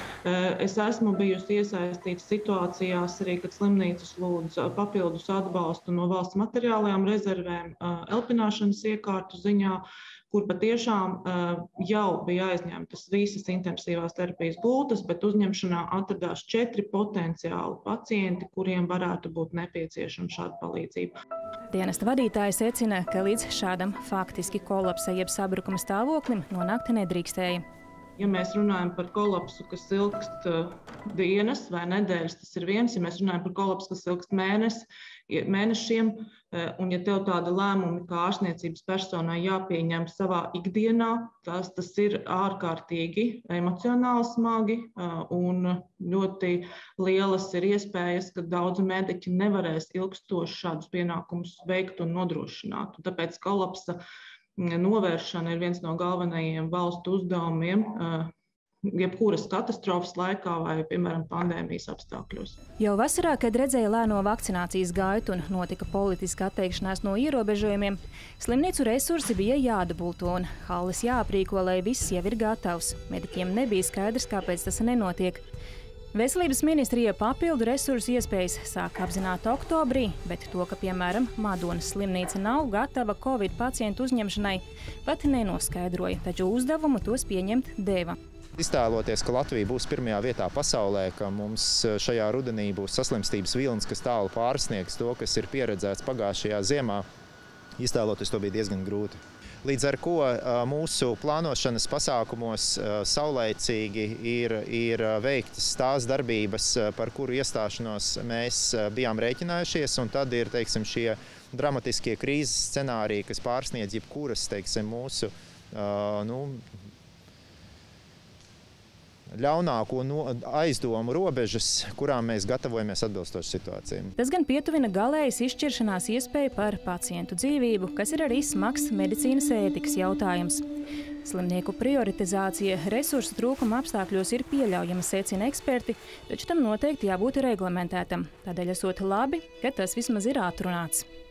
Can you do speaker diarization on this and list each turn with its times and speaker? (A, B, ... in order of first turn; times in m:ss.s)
0:00.2-0:21.1 A
0:21.7-0:27.6 B
0:28.2-0:54.0 A
0:54.6-0:58.3 A
0:58.9-1:02.6 A
1:02.8-1:15.4 B
1:16.1-1:28.2 B
1:28.6-1:37.0 C
1:37.8-1:56.6 C
1:59.3-2:04.1 C
2:04.2-2:10.6 B
2:11.2-2:21.0 B